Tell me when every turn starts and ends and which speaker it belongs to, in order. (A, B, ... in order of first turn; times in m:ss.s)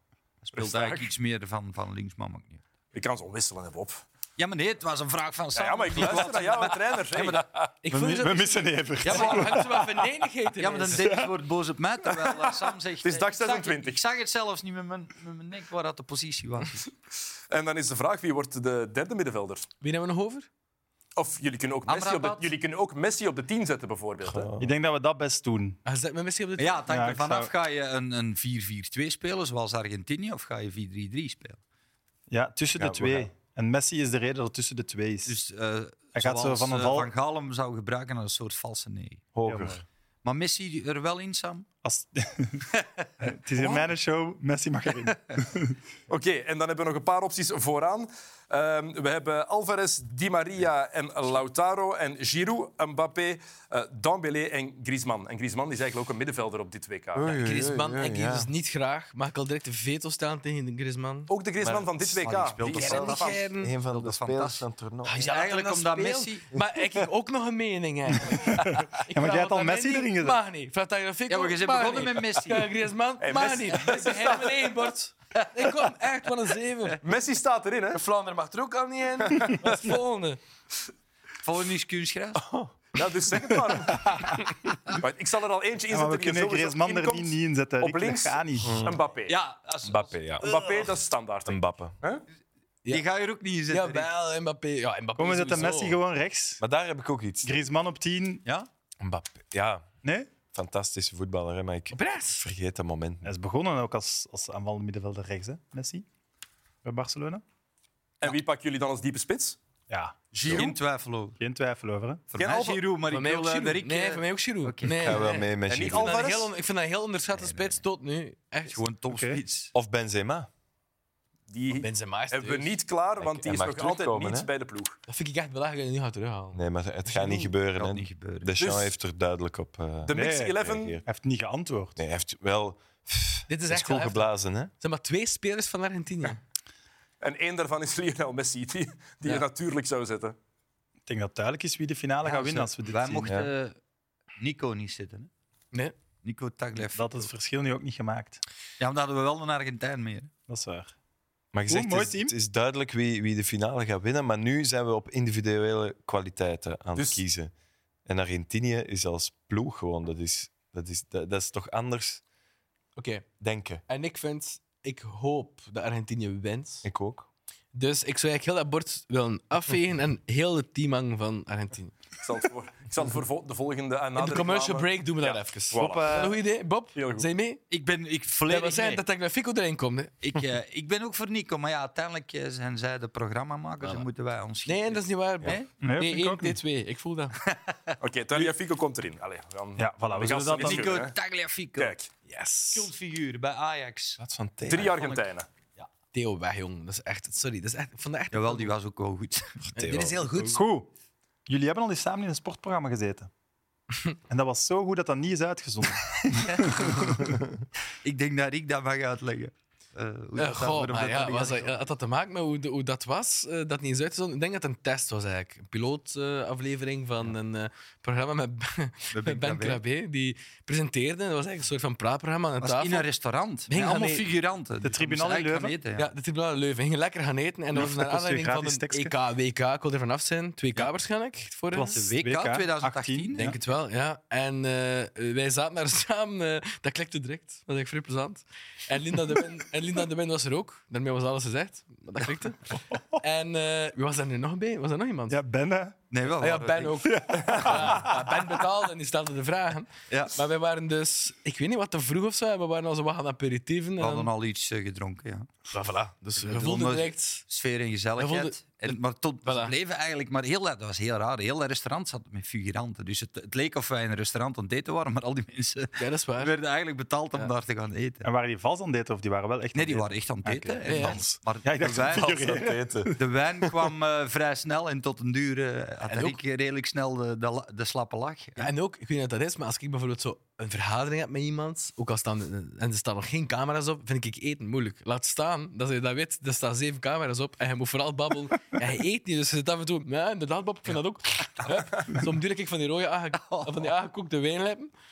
0:00.4-0:02.6 A
0:00.6-0:01.1 B
0:02.9-0:04.0 B
0:04.4-0:07.5 A
0:05.5-0:07.7 B
0:07.8-0:11.2 C
0:07.9-0:09.9 D
0:09.0-0:09.8 A
0:10.6-0:16.9 A
0:11.0-0:11.3 D
0:13.0-0:14.0 B
0:17.5-0:19.7 B
0:19.8-0:20.5 C
0:21.2-0:24.5 B
0:21.9-0:22.5 A
0:24.2-0:24.7 E
0:24.6-0:25.8 D
0:25.8-0:26.8 C
0:26.6-0:31.6 A
0:26.9-0:27.5 D
0:32.3-0:35.4 D
0:32.8-0:33.3 E
0:35.2-0:39.2 A
0:36.1-0:37.1 D
0:39.3-0:39.8 E
0:39.4-0:39.8 D
0:40.2-0:41.7 A
0:41.8-0:42.7 D
0:42.8-0:43.9 A
0:43.2-0:45.8 D
0:46.1-0:57.3 B
0:57.1-0:58.5 E
0:57.4-1:01.3 C
1:01.3-1:03.4 B
1:01.6-1:05.2 E
1:02.2-1:06.5 A
1:02.6-1:03.7 C
1:05.0-1:17.0 C
1:08.6-1:10.4 D
1:11.3-1:12.7 A
1:13.2-1:14.4 B
1:17.0-1:18.0 B
1:17.9-1:20.4 C
1:21.4-1:22.5 A
1:22.4-1:22.7 E
1:22.9-1:24.4 B
1:25.0-1:29.4 B
1:25.9-1:28.7 D
1:28.6-1:29.0 E
1:29.3-1:30.7 A
1:29.8-1:30.5 E
1:30.4-1:32.2 B
1:31.4-1:31.9 E
1:32.9-1:34.1 A
1:33.7-1:36.0 C
1:35.2-1:36.6 D
1:36.6-1:37.6 E
1:37.4-1:38.4 D
1:39.0-1:39.9 E
1:40.0-1:40.3 D
1:40.5-1:43.3 E
1:41.9-1:42.4 C
1:43.2-1:46.0 D
1:46.8-1:47.4 D
1:48.2-1:49.6 B
1:49.9-1:50.2 D
1:50.4-1:51.4 A
1:50.4-1:50.7 E
1:51.4-1:52.2 D
1:52.3-1:55.3 A
1:52.4-1:52.8 B
1:53.1-1:58.8 C
1:54.9-1:56.2 E
1:55.6-1:56.5 B
1:57.4-1:57.8 A
1:58.7-1:59.7 A
1:59.1-1:59.4 D
1:59.7-2:00.5 E
2:01.5-2:05.0 B
2:01.8-2:02.7 C
2:03.2-2:04.5 E
2:05.1-2:06.6 C
2:06.5-2:11.0 E
2:07.3-2:08.6 A
2:08.6-2:08.9 B
2:10.0-2:11.0 B
2:10.1-2:12.0 D
2:12.0-2:14.7 E
2:13.5-2:16.4 C
2:17.2-2:20.3 B
2:21.0-2:23.3 D
2:22.2-2:23.8 A
2:23.3-2:23.5 E
2:24.4-2:25.3 A
2:26.2-2:27.3 A
2:26.8-2:28.4 D
2:28.8-2:30.3 A
2:30.5-2:30.9 D
2:31.5-2:37.5 E
2:31.7-2:32.3 D
2:37.0-2:37.2 B
2:38.0-2:42.2 E
2:43.0-2:43.3 C
2:43.4-2:43.8 E
2:43.9-2:46.8 C
2:46.8-2:47.3 E
2:47.7-2:51.9 C
2:52.2-2:56.1 B
2:54.2-2:57.6 C
2:55.7-2:56.3 D
2:57.0-2:57.3 B
2:57.7-2:59.0 A
2:58.5-3:00.1 C
3:00.2-3:05.7 A
3:04.6-3:07.4 C
3:05.8-3:06.6 D
3:07.5-3:08.0 A
3:08.0-3:11.1 B
3:09.8-3:10.9 D
3:10.6-3:11.9 A
3:11.8-3:12.1 B
3:12.3-3:12.9 C
3:12.7-3:14.2 A
3:14.2-3:15.0 E
3:14.7-3:15.5 B
3:14.7-3:15.2 A
3:16.1-3:18.7 C
3:18.3-3:19.5 A
3:19.6-3:20.5 E
3:19.7-3:20.6 C
3:20.5-3:20.9 D
3:21.5-3:23.3 D
3:24.3-3:26.7 D
3:26.6-3:27.0 A
3:28.0-3:31.8 A
3:30.4-3:43.0 C
3:39.1-3:39.8 A
3:42.6-3:46.1 A
3:43.7-3:44.2 C
3:44.8-3:45.8 D
3:45.9-3:52.0 C
3:47.7-3:49.1 D
3:51.7-3:53.4 D
3:51.8-3:53.5 A
3:53.4-4:05.4 C
4:02.9-4:03.2 D
4:05.3-4:06.0 D
4:06.1-4:08.1 A
4:06.4-4:14.3 C
4:07.0-4:08.1 D
4:10.1-4:10.3 A
4:14.0-4:15.5 A
4:15.7-4:17.4 C
4:16.4-4:28.3 A
4:18.2-4:19.7 C
4:26.0-4:26.6 C
4:28.2-4:30.8 D
4:29.7-4:32.5 A
4:30.5-4:31.4 E
4:30.9-4:31.2 C
4:31.6-4:32.9 D
4:32.1-4:33.9 E
4:33.1-4:38.7 A
4:36.1-4:36.4 C
4:38.6-4:54.9 C
4:53.4-4:53.8 A